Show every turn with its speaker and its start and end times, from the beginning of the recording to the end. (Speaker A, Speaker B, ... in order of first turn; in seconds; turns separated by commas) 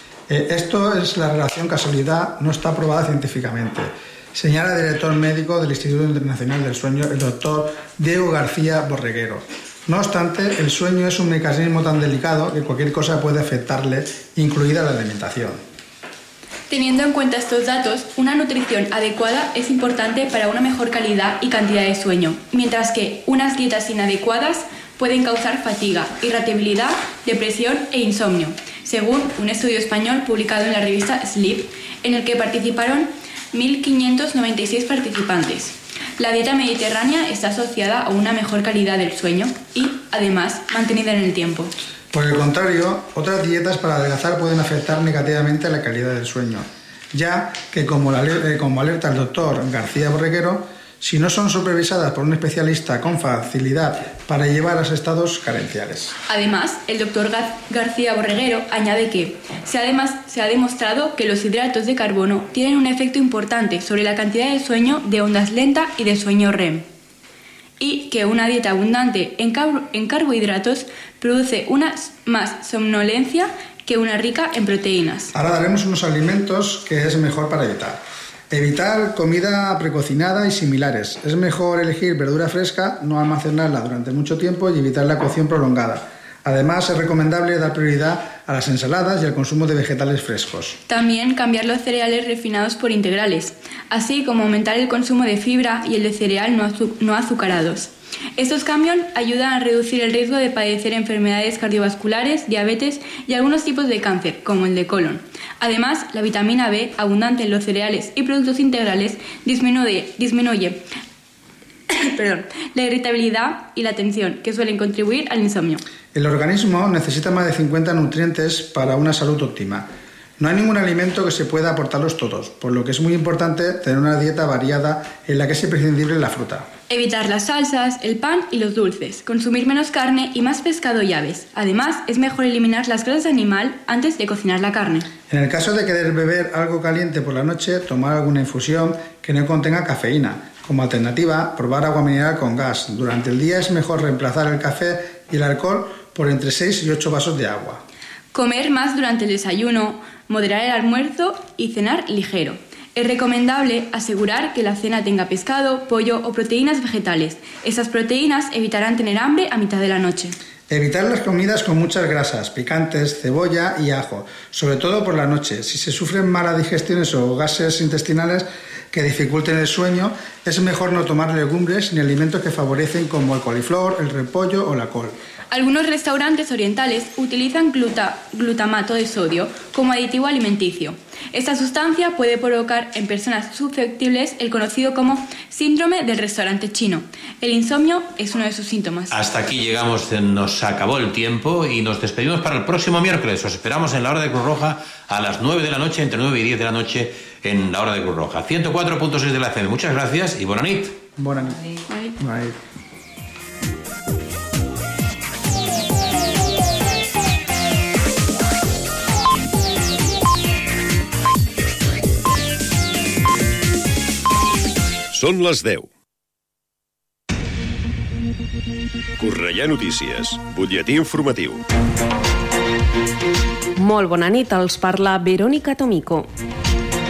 Speaker A: 0.3-15.6, Speaker B: 16.7-41.7, Speaker A: 42.1-56.1, Speaker B: 56.3-66.8, Speaker B: 67.8-75.3, Speaker A: 75.3-90.8, Speaker B: 90.9-110.8, Speaker B: 111.9-115.8, Speaker A: 116.1-119.9, Speaker A: 120.4-126.7, Speaker B: 126.9-135.1, Speaker A: 135.3-147.8, Speaker B: 148.3-160.3, Speaker A: 160.7-175.1, Speaker B: 175.5-189.1, Speaker C: 189.1-201.0, Speaker A: 201.2-201.6, Speaker B: 201.9-202.1, Speaker A: 202.2-202.6, Speaker D: 215.1-215.9, Speaker D: 219.2-221.6, Speaker E: 223.8-226.3